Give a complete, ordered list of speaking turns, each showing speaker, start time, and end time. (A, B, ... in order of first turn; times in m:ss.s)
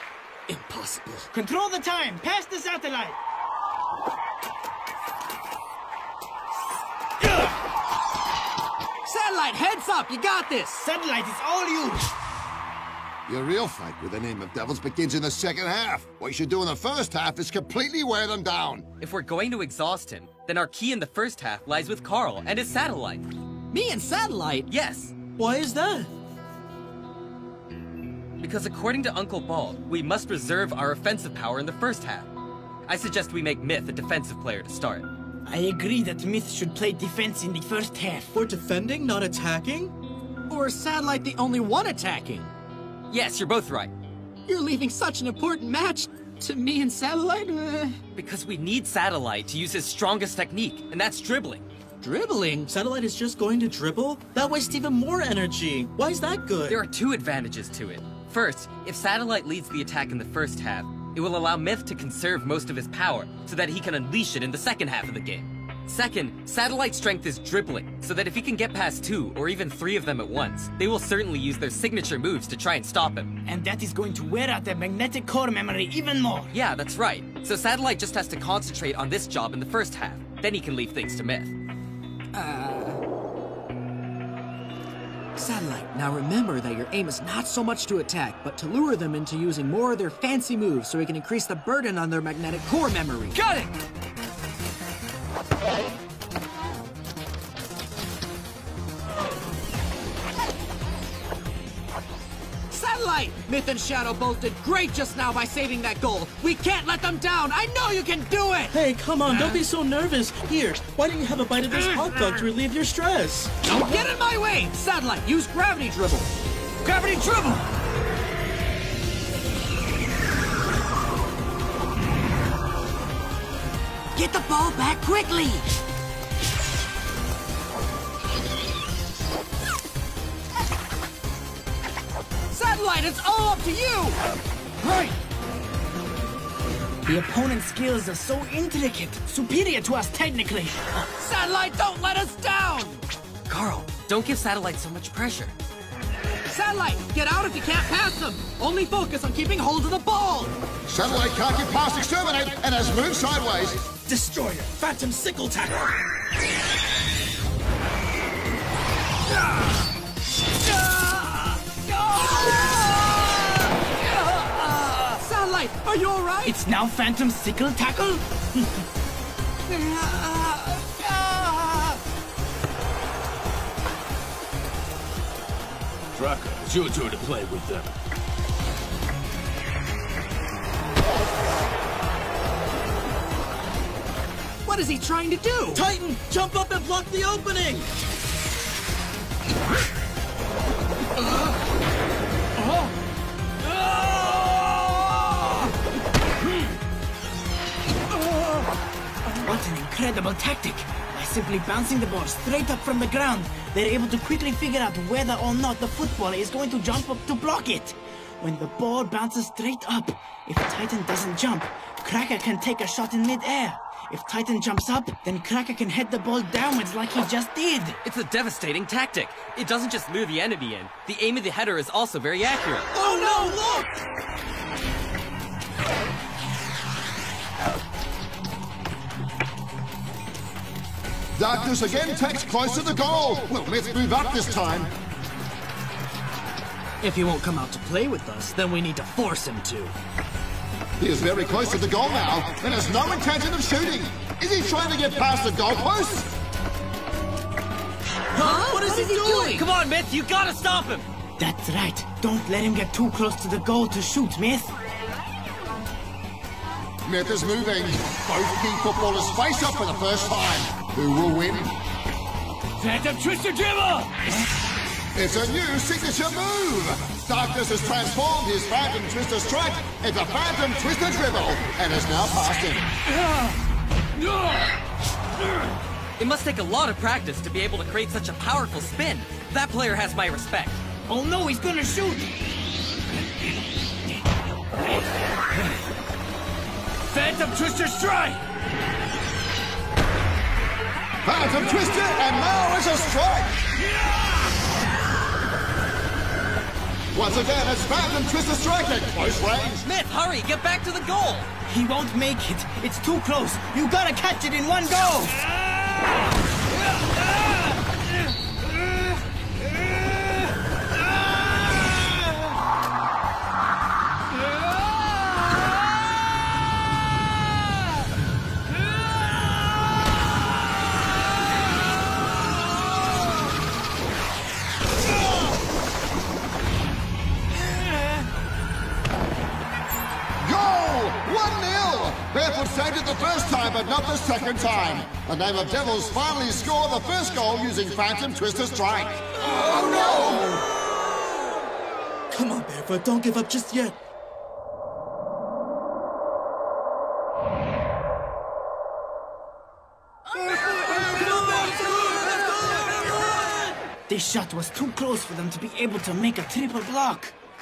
0:00.5-0:01.3 A
0:01.3-0:03.2 B
0:09.0-0:10.9 A
0:10.8-0:12.1 B
0:13.3-0:18.9 C
0:19.0-0:23.2 D
0:23.7-0:24.7 A
0:24.7-0:25.1 D
0:25.4-0:26.1 E
0:28.4-0:32.3 D
0:32.9-0:35.1 D
0:35.5-0:38.4 B
0:38.3-0:40.0 E
0:40.5-0:42.5 A
0:43.1-0:43.9 D
0:44.5-0:48.0 A
0:48.1-0:51.7 D
0:52.0-0:52.7 A
0:52.7-0:56.8 E
0:56.7-1:13.4 D
1:13.4-1:16.5 B
1:16.5-1:21.5 D
1:22.4-1:23.0 A
1:25.4-1:33.7 A
1:42.7-1:48.7 A
1:48.7-1:53.5 E
1:53.6-1:56.3 A
1:56.8-1:57.6 A
2:04.2-2:05.6 A
2:12.5-2:14.2 A
2:14.8-2:15.1 A
2:17.0-2:20.8 B
2:21.2-2:23.0 A
2:23.5-2:25.5 D
2:26.5-2:30.6 A
2:30.9-2:33.9 C
2:34.0-2:36.0 E
2:40.7-2:46.6 A
2:46.4-2:48.8 B
2:49.7-2:52.0 A
2:56.2-2:57.9 F
3:04.7-3:05.8 A
3:05.7-3:07.9 E
3:19.4-3:38.0 B
3:38.0-3:42.9 D
3:42.9-3:43.9 E
3:51.4-3:54.9 C
3:57.0-4:00.0 A
4:01.0-4:06.3 C
4:08.4-4:09.4 E
4:08.4-4:09.7 A
4:08.8-4:11.1 D
4:11.4-4:14.7 B
4:17.0-4:21.8 C
4:22.8-4:24.1 F
4:25.2-4:32.9 C
4:34.2-4:34.6 F
4:36.2-4:40.8 D
4:41.1-4:42.3 B
4:47.1-4:48.4 F
4:51.2-4:53.6 C
4:57.1-4:59.8 C
4:59.8-5:01.5 D
5:01.7-5:05.4 B
5:30.4-5:40.6 C
5:42.3-5:44.0 E
5:50.6-5:51.3 A
5:50.9-5:52.8 E
5:54.1-5:57.3 B